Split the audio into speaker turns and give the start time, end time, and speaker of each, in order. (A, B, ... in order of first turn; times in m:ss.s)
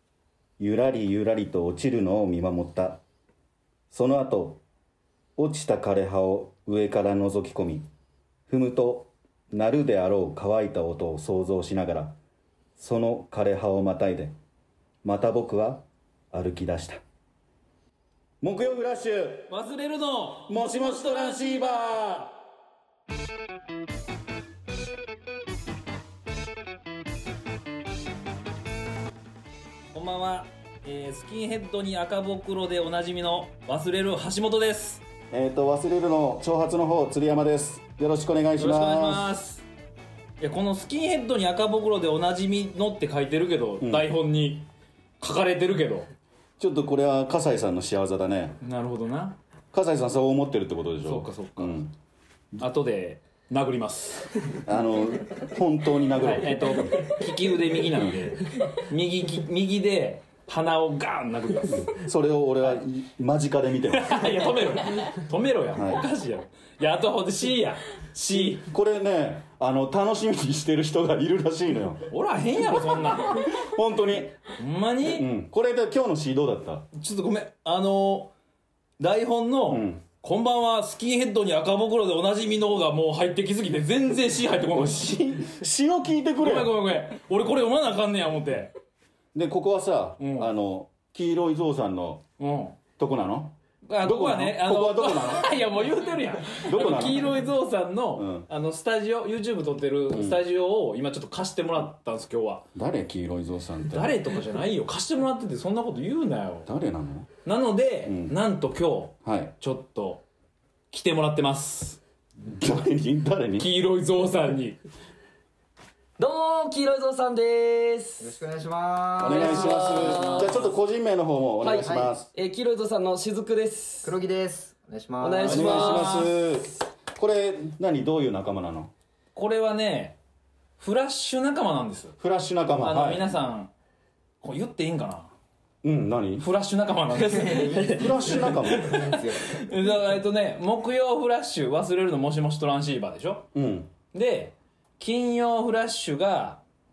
0:00.6-0:03.0 A
0:03.9-0:04.6 A
0:05.4-0:07.8 A
0:08.5-0:12.2 A
0:12.8-0:14.3 A
0:15.0-0:17.0 A
0:18.4-0:19.5 A
0:19.5-0:22.3 B
0:20.4-0:22.0 A
0:29.9-0:35.0 B
0:35.3-0:39.3 A
0:38.6-0:39.6 B
0:40.4-0:44.7 B
0:43.8-0:44.1 A
0:45.2-0:46.1 B
0:46.6-0:48.6 A
0:48.6-0:49.4 B
0:49.7-0:51.9 A
0:51.0-0:51.8 B
0:52.6-0:54.6 B
0:54.6-0:57.1 A
0:56.2-1:02.0 B
1:01.8-1:04.5 A
1:03.9-1:08.6 B
1:05.7-1:06.0 A
1:08.3-1:12.1 A
1:12.1-1:13.5 B
1:13.1-1:14.4 A
1:14.6-1:15.3 B
1:15.0-1:16.8 A
1:16.9-1:18.3 B
1:19.0-1:25.2 B
1:19.7-1:20.0 A
1:24.6-1:26.8 A
1:26.4-1:28.7 B
1:29.3-1:32.2 A
1:30.2-1:30.5 B
1:32.4-1:32.8 B
1:33.0-1:35.7 A
1:33.8-1:42.6 B
1:36.5-1:37.4 A
1:38.2-1:38.5 A
1:40.1-1:40.4 A
1:42.7-1:44.2 A
1:43.9-1:46.7 B
1:46.6-1:47.3 A
1:47.4-1:50.2 B
1:48.0-1:48.4 A
1:49.2-1:49.5 A
1:50.9-1:52.0 B
1:52.4-1:53.7 A
1:53.6-1:54.8 B
1:56.2-1:58.4 C
1:58.2-2:00.6 D
1:59.2-2:00.6 C
1:59.2-2:02.3 A
2:01.6-2:04.1 C
2:01.7-2:02.1 D
2:04.0-2:05.9 D
2:05.2-2:06.2 C
2:05.4-2:06.3 B
2:05.4-2:08.9 A
2:09.3-2:10.2 B
2:10.8-2:12.2 B
2:12.2-2:13.3 A
2:12.7-2:13.7 B
2:14.4-2:15.3 B
2:15.8-2:16.5 A
2:16.4-2:23.5 B
2:17.3-2:19.7 D
2:17.6-2:19.0 A
2:23.5-2:23.9 A
2:24.1-2:26.6 B